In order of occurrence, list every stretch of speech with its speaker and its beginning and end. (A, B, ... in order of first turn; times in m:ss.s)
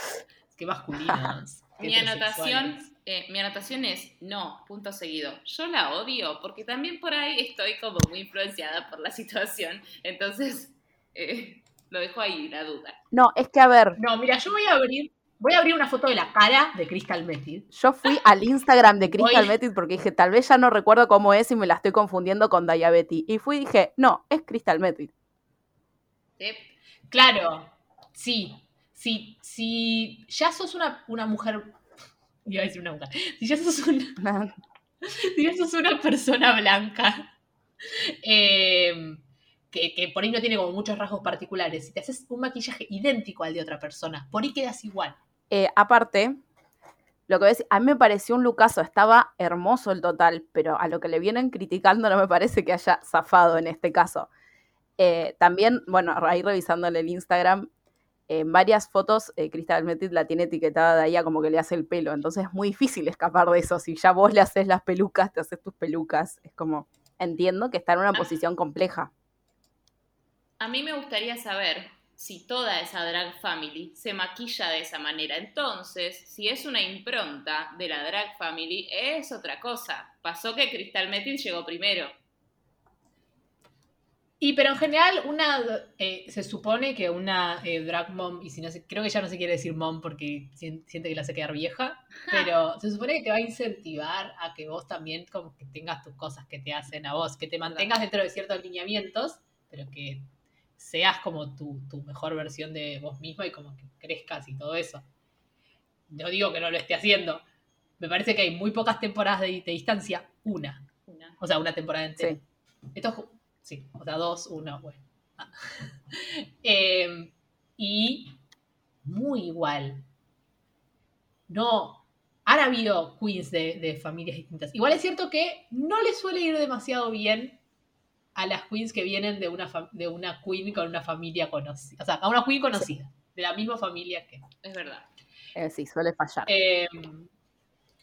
0:00.5-0:02.9 A
0:01.8-0:13.0 B
0:13.1-0:14.0 C
0:14.0-0:17.7 A
0:17.7-0:25.1 C
0:19.1-0:19.5 A
0:26.4-0:26.7 B
0:27.1-0:31.8 A
0:32.4-0:34.2 A
0:34.2-0:34.6 C
0:35.0-0:37.3 A
0:37.9-0:45.2 A
0:45.5-0:46.4 C
0:47.3-0:54.3 C
0:55.0-0:57.7 C
0:58.3-1:09.1 C
1:10.6-1:22.1 B
1:24.4-1:45.0 A
1:46.1-1:47.4 A
1:48.0-1:50.8 A
1:51.1-1:51.4 B
1:51.4-1:52.4 A
1:52.9-1:58.4 A
1:59.0-2:00.0 A
2:01.5-2:07.6 A
2:08.3-2:14.4 A
2:14.6-2:15.1 B
2:15.5-2:16.5 C
2:16.5-2:17.3 A